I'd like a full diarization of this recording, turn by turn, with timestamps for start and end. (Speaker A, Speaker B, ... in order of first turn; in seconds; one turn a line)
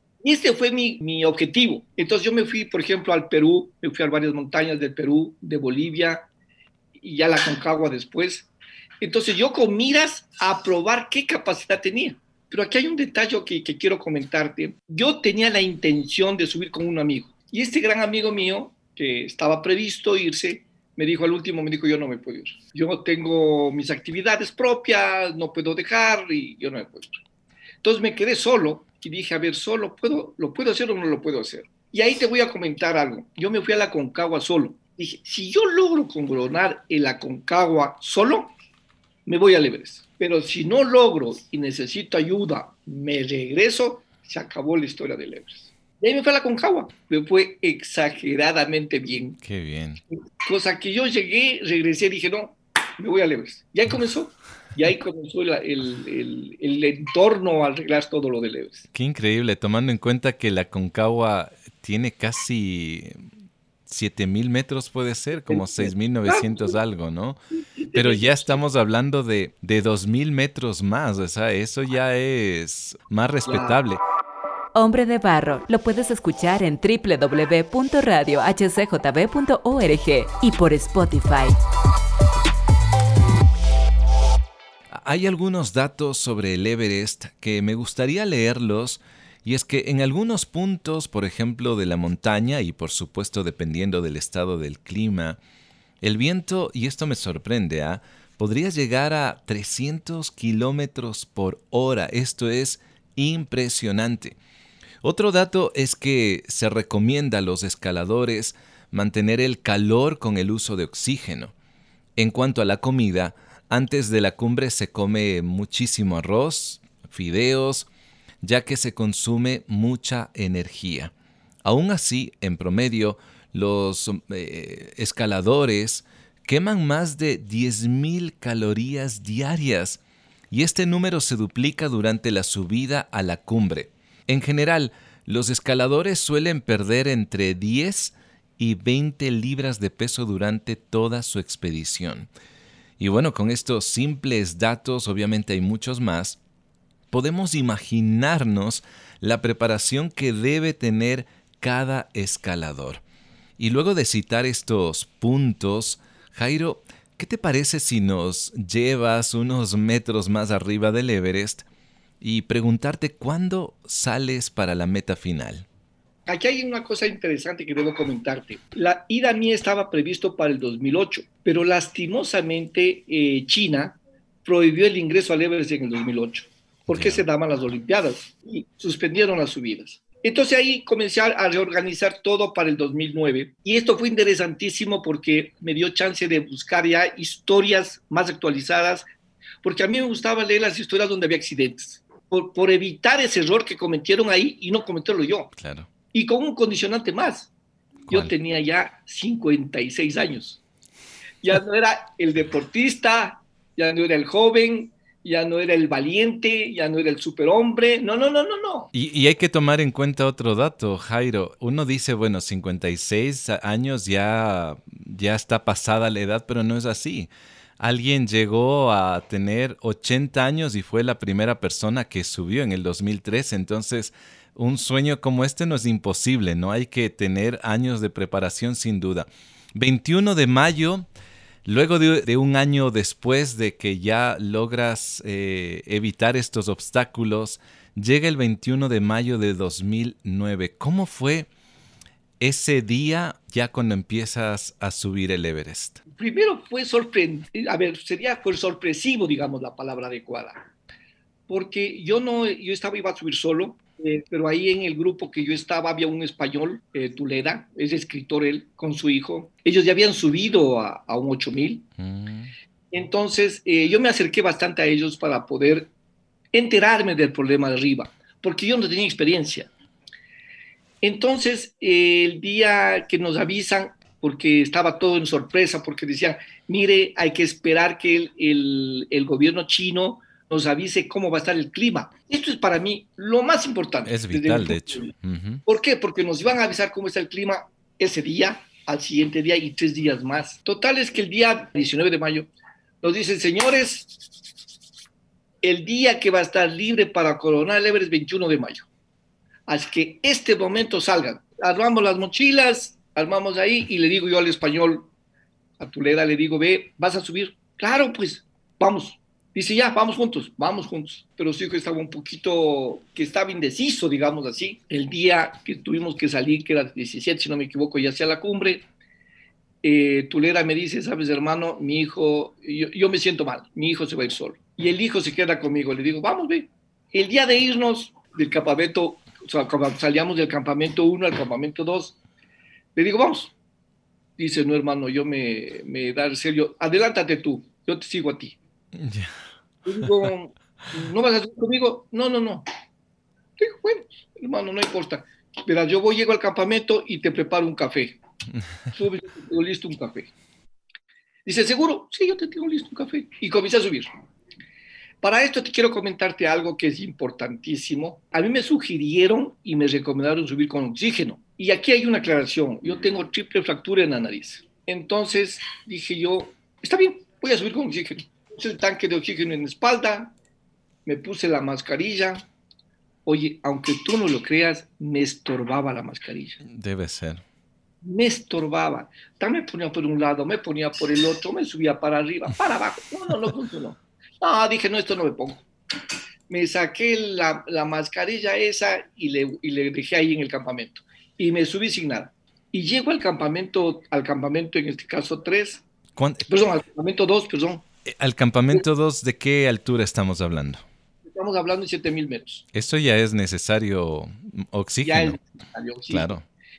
Speaker A: 0.2-6.3
Speaker A: 7.0-8.5
Speaker A: 9.0-27.2
Speaker A: 27.8-38.5
Speaker A: 39.2-49.4
Speaker B: 49.4-50.0
Speaker A: 50.4-58.9
Speaker B: 58.9-63.3
Speaker B: 63.9-67.4
Speaker A: 65.5-66.8
Speaker A: 67.5-68.6
Speaker B: 67.9-74.0
Speaker A: 73.5-73.8
Speaker C: 74.7-81.6
Speaker B: 84.9-95.4
Speaker B: 96.0-104.4
Speaker B: 105.0-111.5
Speaker B: 112.2-117.9
Speaker B: 118.4-121.1
Speaker B: 121.6-142.3
Speaker B: 143.0-146.4
Speaker B: 147.1-153.0
Speaker B: 153.6-161.6
Speaker B: 162.2-165.7
Speaker A: 166.2-189.1
Speaker B: 176.9-177.2
Speaker A: 189.6-195.5
Speaker B: 195.6-195.9
Speaker A: 196.1-197.5
Speaker A: 198.1-200.6
Speaker A: 201.4-208.9
Speaker B: 208.9-231.1
Speaker B: 231.6-241.5
Speaker B: 242.4-246.0
Speaker A: 246.1-250.7
Speaker A: 251.5-261.9
Speaker B: 262.0-262.5
Speaker A: 262.9-265.9
Speaker A: 266.5-269.7
Speaker A: 271.0-285.1
Speaker B: 284.0-285.6
Speaker A: 285.6-292.5
Speaker A: 293.0-294.2
Speaker A: 295.6-298.9
Speaker A: 299.7-305.1
Speaker A: 305.8-318.9
Speaker A: 319.8-332.1
Speaker A: 332.9-333.5
Speaker A: 334.4-338.6
Speaker B: 338.9-339.4
Speaker A: 339.8-342.6
Speaker A: 343.6-348.2
Speaker A: 348.9-350.3
Speaker A: 351.4-354.1
Speaker A: 355.2-370.3
Speaker A: 371.1-372.4
Speaker A: 373.2-376.6
Speaker B: 376.6-377.4
Speaker A: 378.0-385.7
Speaker A: 386.5-395.8
Speaker B: 396.1-396.4
Speaker A: 396.4-397.8
Speaker B: 398.1-400.8
Speaker A: 401.2-402.6
Speaker B: 402.7-405.4
Speaker A: 405.0-406.4
Speaker B: 406.1-406.4